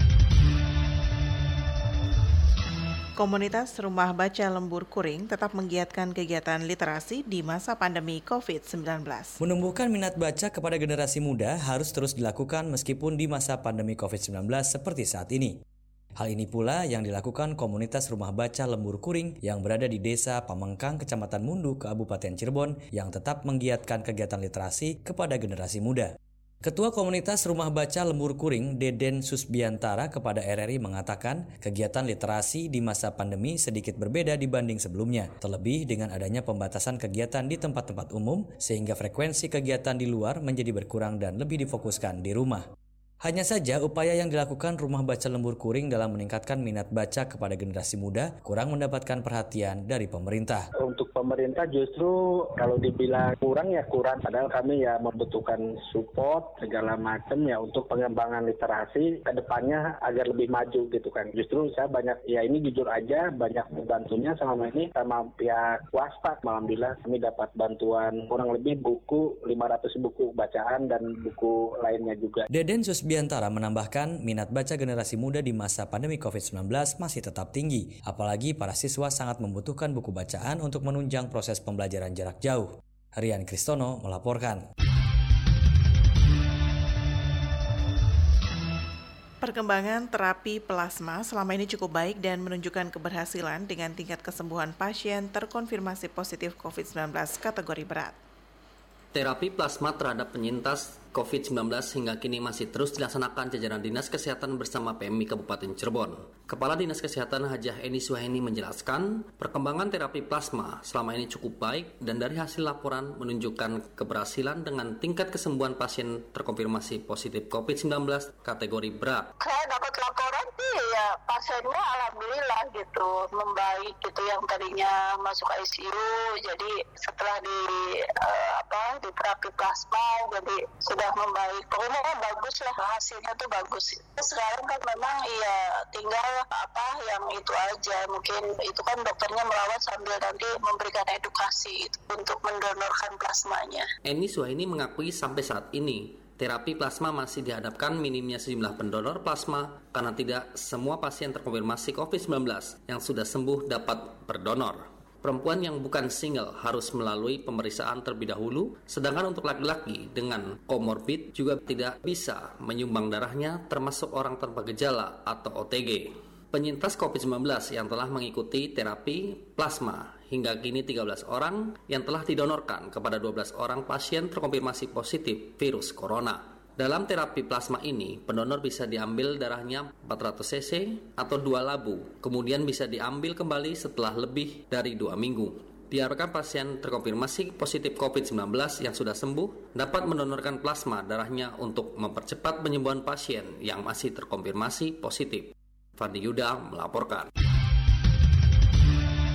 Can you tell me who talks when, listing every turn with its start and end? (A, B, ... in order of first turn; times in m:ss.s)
0:03.2-0:09.4 A
0:09.4-0:15.6 B
0:16.2-0:26.1 B
0:26.6-0:42.6 B
0:43.2-0:50.6 B
0:50.8-1:12.5 C
1:12.5-1:24.6 B
1:29.4-1:38.2 A
1:39.1-1:59.3 D
1:59.4-2:23.9 E
2:24.0-3:17.3 D